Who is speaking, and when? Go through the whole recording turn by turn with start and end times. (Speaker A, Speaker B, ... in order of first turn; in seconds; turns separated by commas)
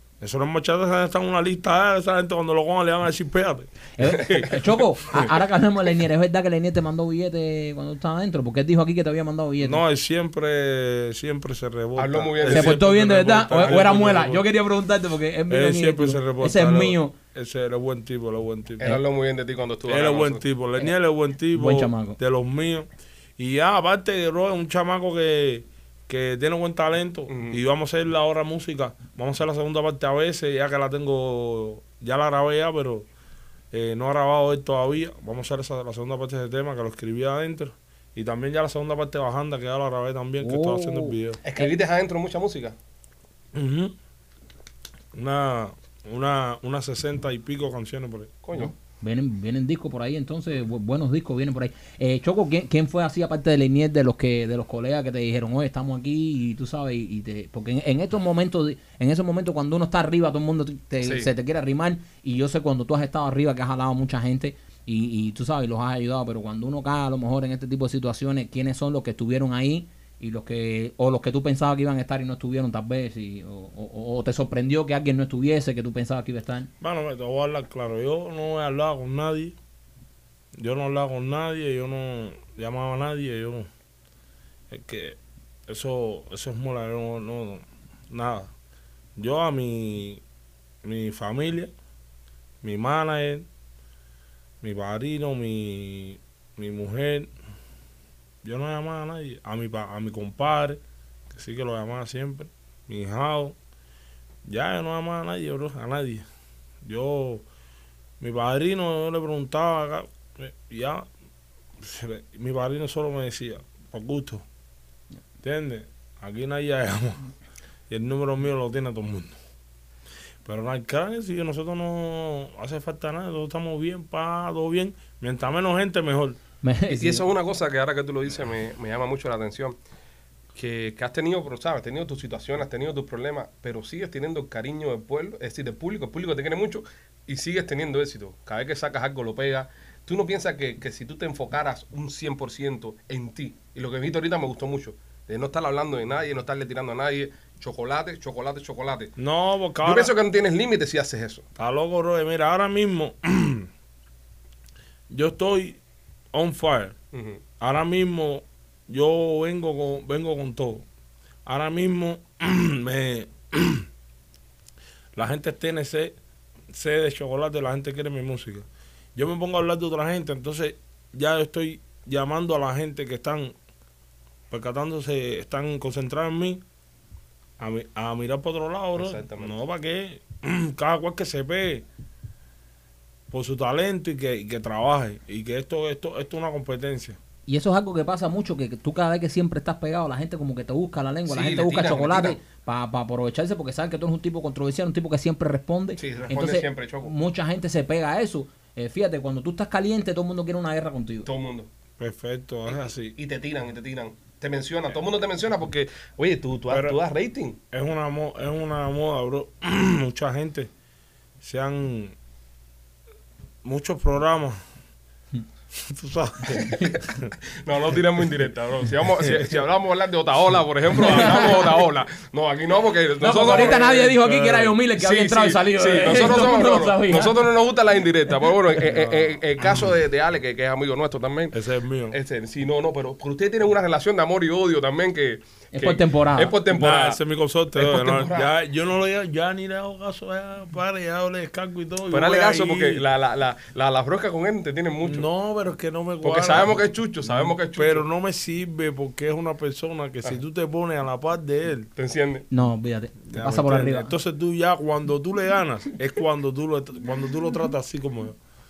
Speaker A: 0.2-3.7, Speaker B: 4.0-9.8, Speaker C: 4.0-5.3, Speaker A: 9.6-14.5, Speaker C: 12.0-12.8, Speaker B: 12.5-17.1, Speaker A: 15.5-18.9, Speaker C: 18.8-20.4, Speaker A: 19.9-33.1, Speaker B: 21.5-22.2, Speaker C: 27.3-27.6, Speaker A: 33.7-41.4, Speaker B: 40.4-41.7, Speaker C: 41.4-42.8, Speaker A: 43.5-44.0, Speaker A: 45.1-48.4, Speaker C: 48.4-48.7, Speaker B: 48.5-76.7, Speaker C: 61.0-61.3, Speaker A: 76.8-79.6, Speaker A: 80.5-83.7, Speaker A: 84.7-88.5, Speaker A: 89.2-90.2, Speaker A: 90.8-91.7, Speaker A: 92.6-93.5, Speaker A: 94.6-97.3, Speaker A: 98.4-103.6, Speaker A: 104.5-106.3, Speaker A: 106.8-107.5, Speaker A: 108.2-111.1, Speaker A: 111.8-114.5, Speaker A: 115.4-117.3, Speaker A: 117.9-119.4, Speaker A: 120.5-126.4, Speaker B: 126.6-127.3, Speaker C: 126.9-129.8, Speaker C: 130.6-149.1, Speaker A: 149.2-150.2, Speaker C: 149.8-151.4, Speaker A: 151.6-153.7, Speaker A: 155.1-155.8, Speaker A: 156.3-156.9, Speaker C: 157.1-157.4, Speaker A: 157.6-160.8, Speaker A: 161.5-163.9, Speaker A: 165.2-166.2, Speaker A: 166.7-173.6, Speaker A: 174.5-176.6, Speaker A: 177.6-181.9, Speaker C: 178.9-179.6, Speaker A: 183.3-187.2, Speaker B: 187.5-201.3, Speaker C: 191.3-192.4, Speaker C: 196.0-197.1, Speaker C: 201.2-201.7, Speaker A: 202.0-203.2, Speaker C: 202.7-207.6, Speaker A: 206.7-207.0, Speaker A: 207.7-210.7, Speaker A: 211.4-212.2, Speaker A: 213.6-214.6, Speaker A: 215.7-217.3, Speaker C: 216.6-217.0, Speaker C: 217.6-224.1, Speaker A: 219.2-219.5, Speaker B: 221.0-221.8, Speaker B: 223.2-227.5, Speaker A: 223.5-224.8, Speaker C: 225.0-231.6, Speaker A: 228.9-229.3, Speaker A: 231.5-232.2, Speaker C: 232.1-237.2, Speaker B: 235.7-236.6, Speaker A: 236.7-243.0, Speaker C: 237.8-238.5, Speaker C: 242.1-245.3, Speaker A: 245.1-246.8, Speaker C: 246.2-248.1, Speaker A: 247.8-251.9, Speaker C: 252.0-252.5, Speaker B: 252.5-254.1, Speaker A: 253.3-258.4